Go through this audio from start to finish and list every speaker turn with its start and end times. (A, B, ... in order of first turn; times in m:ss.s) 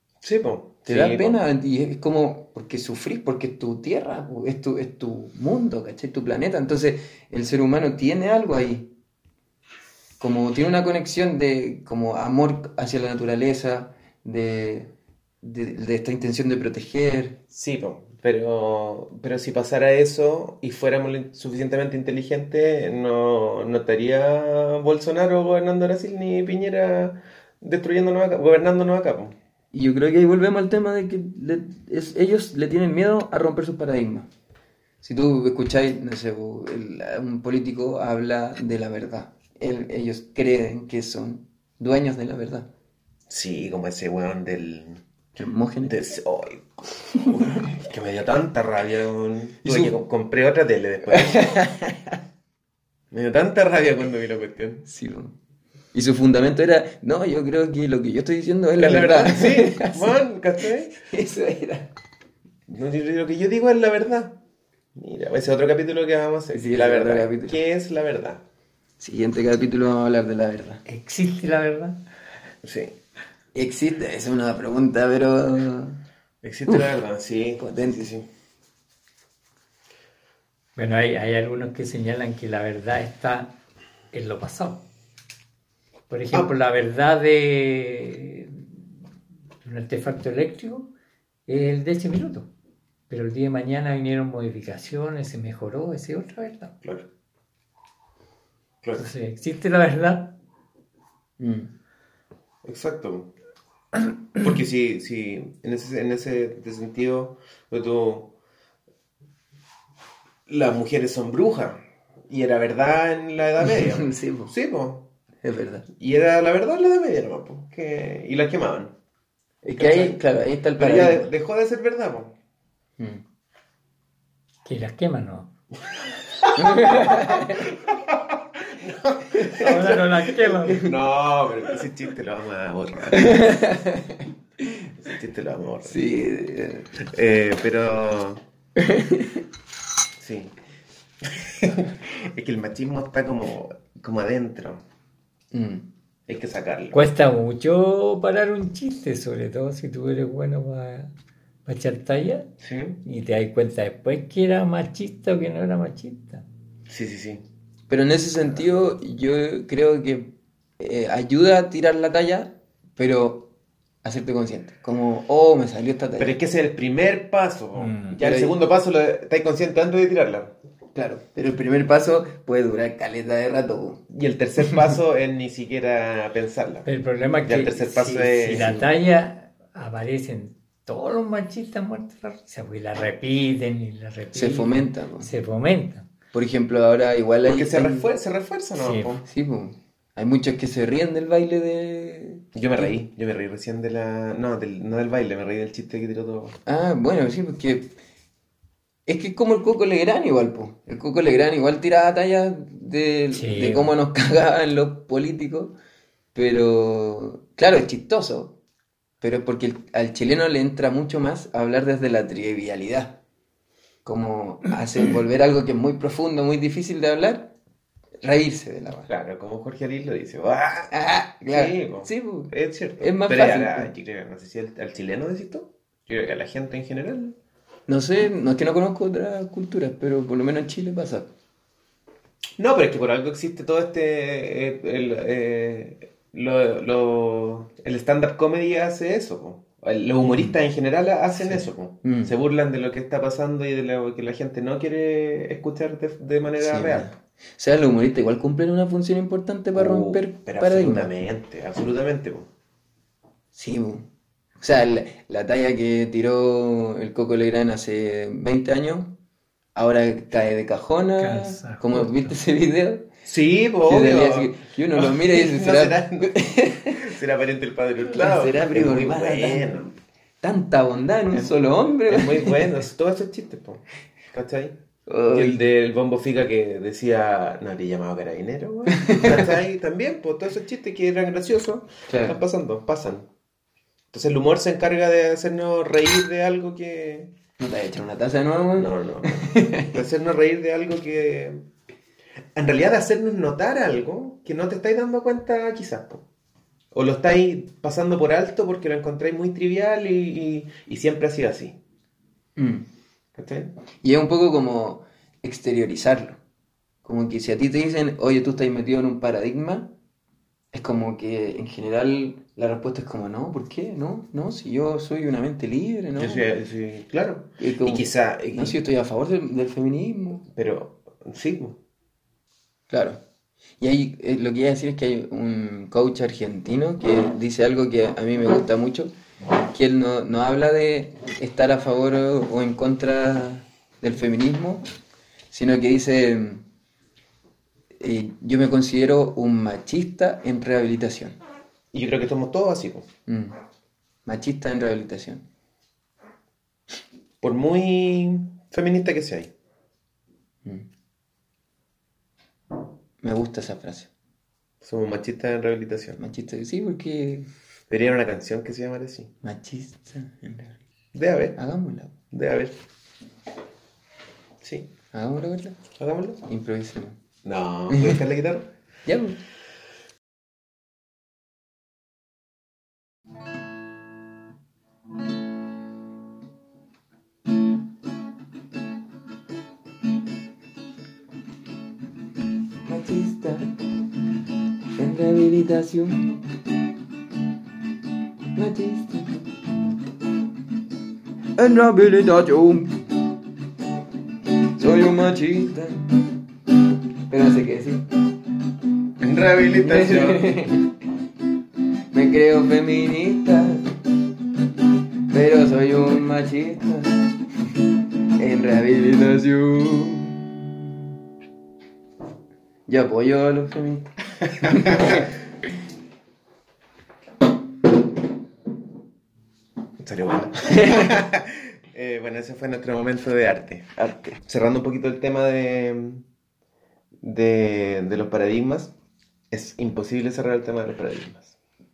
0:00.2-0:01.4 A
0:00.9-0:08.9 B
0:10.2-0:14.9 B
0:15.4-0:17.4 B
0:17.5-0:29.3 A
0:29.7-0:34.3 B
0:35.0-0:42.7 B
0:43.3-0:45.0 A
0:45.4-0:45.9 B
0:45.8-0:51.6 A
0:49.6-0:50.0 B
0:51.1-0:52.2 B
0:53.1-0:54.8 A
0:54.8-0:55.3 B
0:55.9-1:00.2 B
0:58.8-1:00.9 A
1:00.9-1:01.9 B
1:02.7-1:04.4 A
1:04.9-1:08.4 A
1:06.5-1:07.6 B
1:09.0-1:10.8 B
1:10.8-1:12.0 C
1:12.6-1:12.9 A
1:13.5-1:16.0 B
1:16.4-1:18.3 A
1:17.6-1:18.1 B
1:20.8-1:23.6 C
1:24.1-1:24.8 C
1:26.1-1:28.8 C
1:29.6-1:30.9 C
1:31.5-1:32.5 C
1:33.1-1:36.7 C
1:39.0-1:40.4 C
1:41.4-1:41.7 B
1:42.6-1:43.3 A
1:44.3-1:48.3 A
1:50.5-1:55.1 A
1:53.6-1:54.5 B
1:55.4-1:55.9 B
1:56.0-1:58.9 A
1:59.6-2:01.3 B
1:59.8-2:00.2 A
2:00.8-2:02.3 A
2:03.0-2:03.2 B
2:04.6-2:05.5 C
2:06.4-2:13.6 A
2:06.5-2:07.7 B
2:09.3-2:09.7 B
2:09.5-2:10.9 C
2:13.1-2:14.8 B
2:15.0-2:16.0 A
2:15.8-2:16.9 B
2:17.0-2:18.4 A
2:18.8-2:19.4 B
2:20.2-2:20.5 A
2:21.2-2:24.8 A
2:25.5-2:25.8 B
2:26.3-2:27.0 A
2:26.9-2:31.1 C
2:31.6-2:32.5 C
2:32.6-2:33.0 A
2:33.0-2:36.4 C
2:36.9-2:37.4 A
2:37.9-2:43.5 B
2:44.0-2:46.4 B
2:46.2-2:50.5 A
2:47.8-2:48.2 C
2:48.2-2:48.6 B
2:50.9-2:54.0 B
2:54.1-2:56.9 A
2:56.8-3:06.1 C
2:57.4-2:58.8 A
2:58.5-2:58.9 B
3:04.3-3:05.3 B
3:06.3-3:08.1 B
3:07.4-3:09.2 A
3:08.8-3:09.2 C
3:09.2-3:12.9 B
3:12.5-3:16.6 A
3:16.6-3:18.0 B
3:19.0-3:25.7 B
3:23.3-3:23.9 C
3:26.3-3:28.5 B
3:29.2-3:33.2 B
3:34.0-3:37.5 B
3:38.2-3:39.1 B
3:39.1-3:40.9 A
3:40.9-3:43.9 B
3:41.5-3:47.4 A
3:47.9-3:51.3 B
3:52.6-4:07.1 A
4:00.3-4:00.5 B
4:01.4-4:02.3 B
4:06.6-4:11.1 B
4:09.7-4:12.5 A
4:13.5-4:14.1 B
4:14.6-4:19.1 B
4:19.7-4:23.1 B
4:21.2-4:22.3 C
4:23.2-4:30.0 A
4:23.9-4:27.1 B
4:28.0-4:29.7 B
4:30.4-4:32.8 B
4:31.3-4:34.8 A
4:35.1-4:35.6 B
4:35.3-4:43.3 A
4:38.9-4:39.5 B
4:42.1-4:42.4 B
4:44.1-4:47.3 A
4:47.6-4:50.0 B
4:48.8-4:51.6 A
4:52.5-4:56.2 A
4:56.9-5:01.8 A
5:02.6-5:02.8 B
5:03.4-5:03.7 A
5:04.0-5:06.4 B
5:07.0-5:09.9 B
5:10.7-5:16.4 B
5:16.2-5:18.8 A
5:17.6-5:20.4 B
5:20.5-5:21.8 A
5:22.9-5:23.2 B
5:23.8-5:34.8 B
5:35.5-5:36.6 B
5:38.0-5:41.4 B
5:41.9-5:43.1 A
5:43.2-5:43.6 B
5:44.2-5:45.4 B
5:47.4-5:49.5 A
5:53.2-5:54.1 B
5:54.8-5:56.2 A
5:56.2-5:57.5 B
5:57.9-5:59.3 A
5:59.4-6:00.8 B
6:01.1-6:01.6 A
6:01.6-6:02.1 B
6:02.3-6:02.8 A
6:04.6-6:04.9 A
6:05.1-6:05.8 B
6:05.9-6:06.4 A
6:06.4-6:07.2 B
6:07.4-6:08.7 A
6:07.9-6:08.2 B
6:09.0-6:09.4 B
6:22.8-6:23.8 B
6:25.0-6:26.4 B
6:28.6-6:29.5 B
6:31.6-6:33.0 B
6:34.7-6:36.2 B
6:37.3-6:38.1 B
6:39.2-6:40.6 A
6:39.7-6:40.9 B
6:42.1-6:43.9 B
6:45.3-6:47.3 B
6:48.4-6:51.0 B
6:52.9-6:55.3 B
6:54.6-6:55.3 A
7:00.0-7:06.2 A
7:00.7-7:01.1 B
7:07.2-7:08.9 A
7:09.5-7:11.5 A